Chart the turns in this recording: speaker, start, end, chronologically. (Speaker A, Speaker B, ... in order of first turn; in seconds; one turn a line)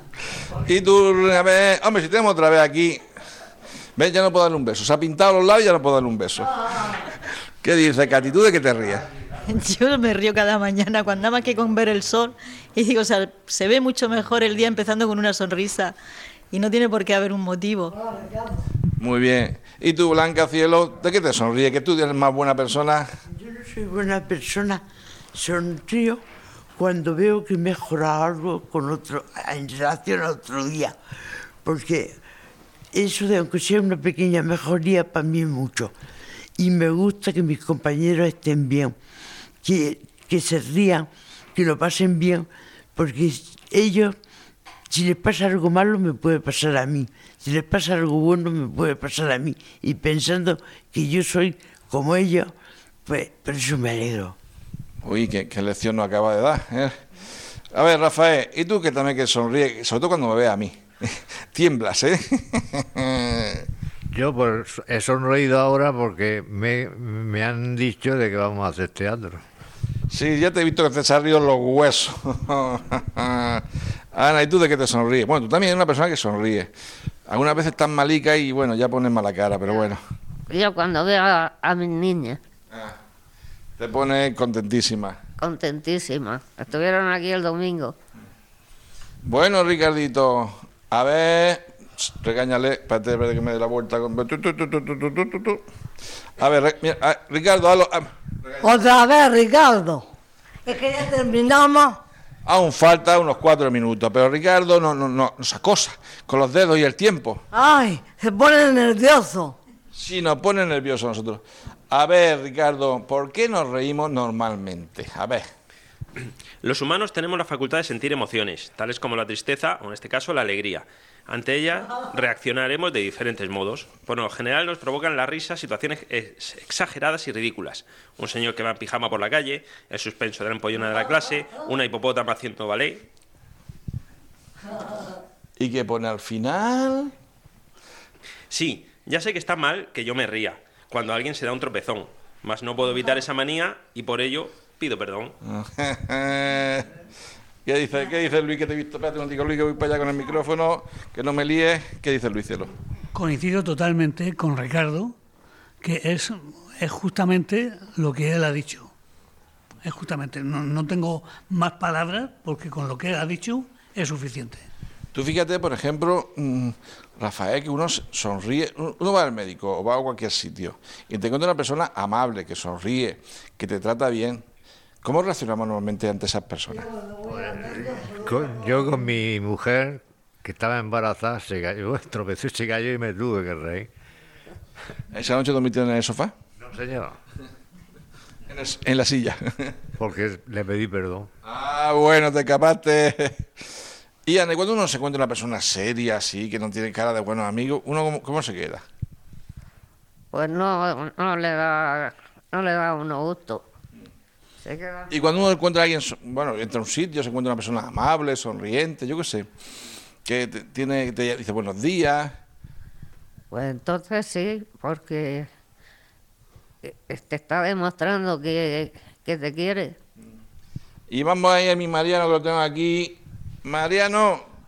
Speaker A: 0.6-3.0
Speaker A: 4.0-7.0
Speaker A: 7.6-9.1
Speaker B: 9.4-16.0
Speaker B: 16.5-17.9
Speaker C: 17.9-18.6
Speaker A: 19.0-23.1
Speaker D: 23.3-24.8
Speaker D: 25.3-26.2
Speaker D: 26.8-31.0
Speaker D: 31.6-32.1
Speaker D: 32.9-35.9
Speaker D: 36.6-38.9
Speaker D: 39.6-44.2
Speaker D: 44.9-52.5
Speaker D: 53.1-54.4
Speaker A: 55.0-56.9
Speaker A: 57.7-63.6
Speaker E: 64.1-69.4
Speaker A: 70.1-76.7
Speaker A: 77.3-80.0
Speaker F: 80.5-82.4
Speaker A: 83.8-85.2
Speaker F: 85.4-87.9
Speaker A: 89.2-95.6
Speaker A: 96.4-98.6
Speaker C: 98.6-100.0
Speaker C: 100.6-102.0
Speaker A: 102.4-107.4
Speaker C: 107.5-109.6
Speaker A: 109.9-115.4
Speaker G: 116.6-133.0
Speaker A: 135.6-137.1
Speaker G: 138.5-145.3
Speaker A: 145.4-146.9
Speaker A: 147.6-152.7
Speaker H: 153.1-155.1
Speaker H: 155.8-158.9
Speaker H: 159.8-164.7
Speaker A: 165.1-174.4
Speaker A: 175.0-176.8
Speaker C: 176.8-178.5
Speaker E: 177.3-183.9
Speaker A: 185.1-186.3
Speaker E: 186.6-187.2
Speaker A: 188.5-189.7
Speaker E: 190.0-191.3
Speaker A: 191.4-193.4
Speaker A: 194.2-198.8
Speaker F: 200.3-203.6
Speaker F: 204.6-205.1
Speaker A: 205.1-209.5
Speaker A: 210.2-212.4
Speaker F: 213.5-215.5
Speaker F: 216.8-219.9
Speaker A: 221.1-224.4